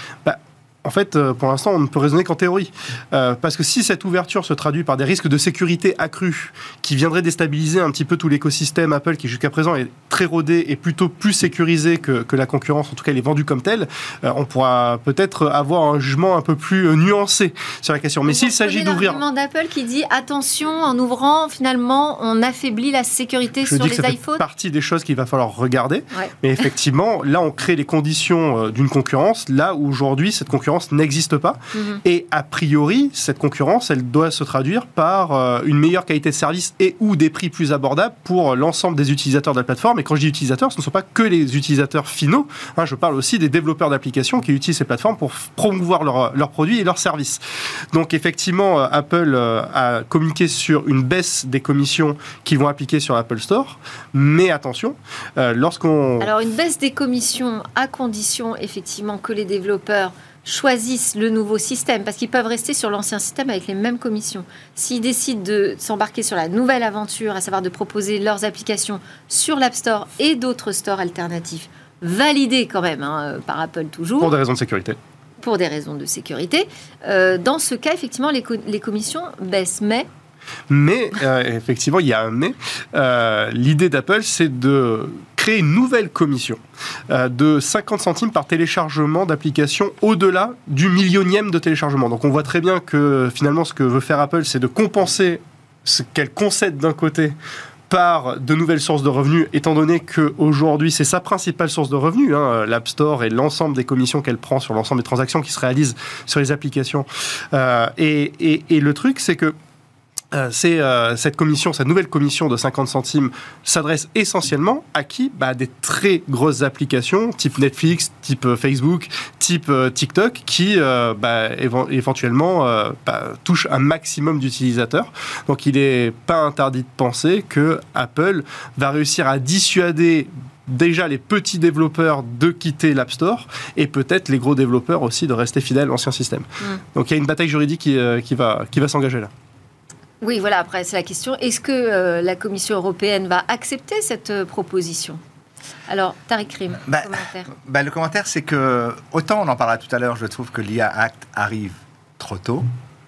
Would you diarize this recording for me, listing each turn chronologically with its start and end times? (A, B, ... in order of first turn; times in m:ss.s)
0:00.2-0:19.2 A
0:18.3-0:24.4 B
0:23.7-0:47.4 A
0:31.7-0:32.0 B
0:47.9-0:56.3 A
0:56.2-1:14.3 B
1:14.2-1:15.0 A
1:15.4-1:20.1 B
1:20.7-1:37.4 A
1:37.9-1:49.6 A
1:50.3-2:19.3 A
2:20.2-2:25.2 B
2:25.9-2:27.5 B
2:26.9-2:32.7 C